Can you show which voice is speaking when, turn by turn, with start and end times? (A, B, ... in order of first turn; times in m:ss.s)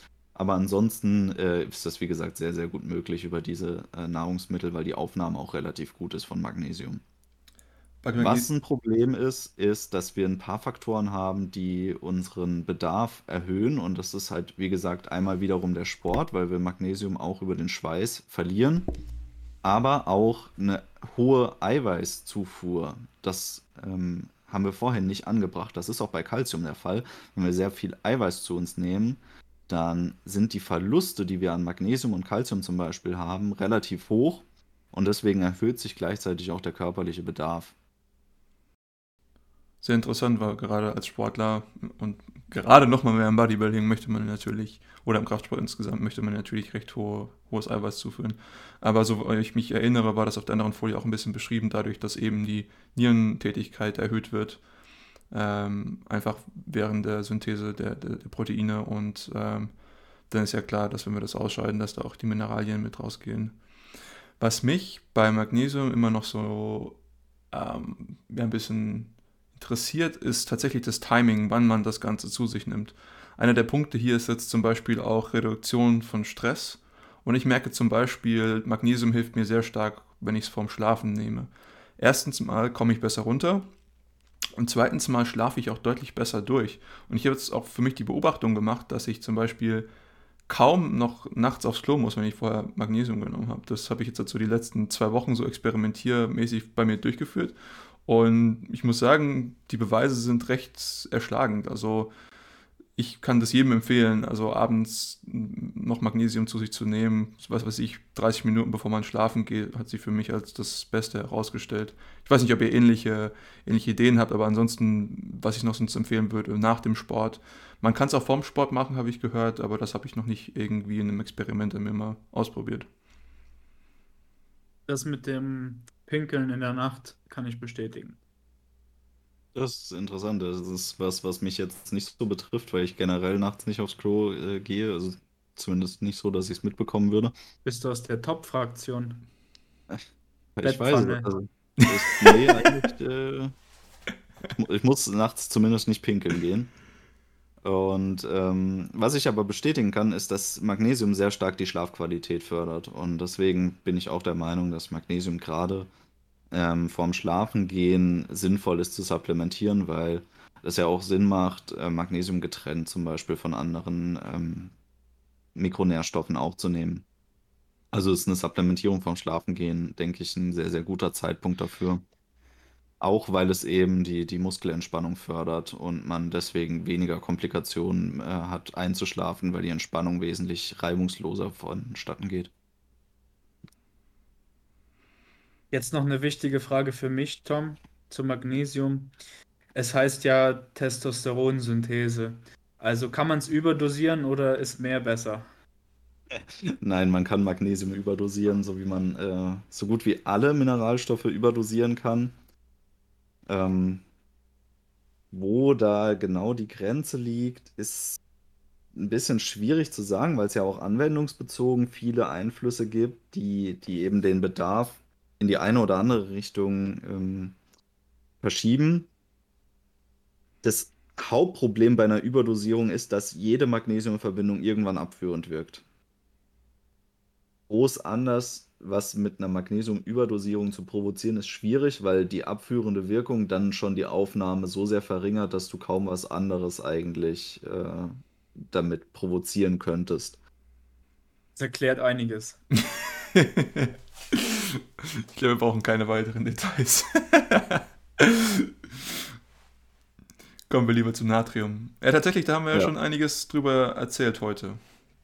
0:00.3-0:07.0 A
0:08.0-0:08.5 B
0:08.2-0:18.9 A
0:19.6-0:37.7 A
0:39.8-0:54.6 B
0:55.3-1:03.6 B
1:04.4-1:07.0 B
1:07.5-1:23.7 B
1:24.6-1:29.9 B
1:30.5-1:42.1 B
1:42.9-2:02.9 B
2:04.9-2:08.2 C
2:09.5-2:17.3 A
2:17.6-2:19.2 C
2:20.6-2:23.6 A
2:20.6-2:21.3 C
2:22.2-2:22.5 B
2:24.5-2:26.7 A
2:27.6-2:35.9 A
2:36.5-2:44.7 A
2:45.6-2:47.0 A
2:47.9-2:52.0 A
2:53.0-3:02.5 A
3:05.7-3:09.1 C
3:09.7-3:15.4 C
3:16.3-3:22.3 A
3:23.5-3:24.0 A
3:25.3-3:28.2 A
3:28.9-3:37.6 A
3:38.4-3:39.1 A
3:40.6-3:45.8 A
3:47.7-3:58.2 A
3:58.7-4:00.4 A
4:01.6-4:02.6 C
4:02.9-4:09.1 B
4:10.7-4:14.8 B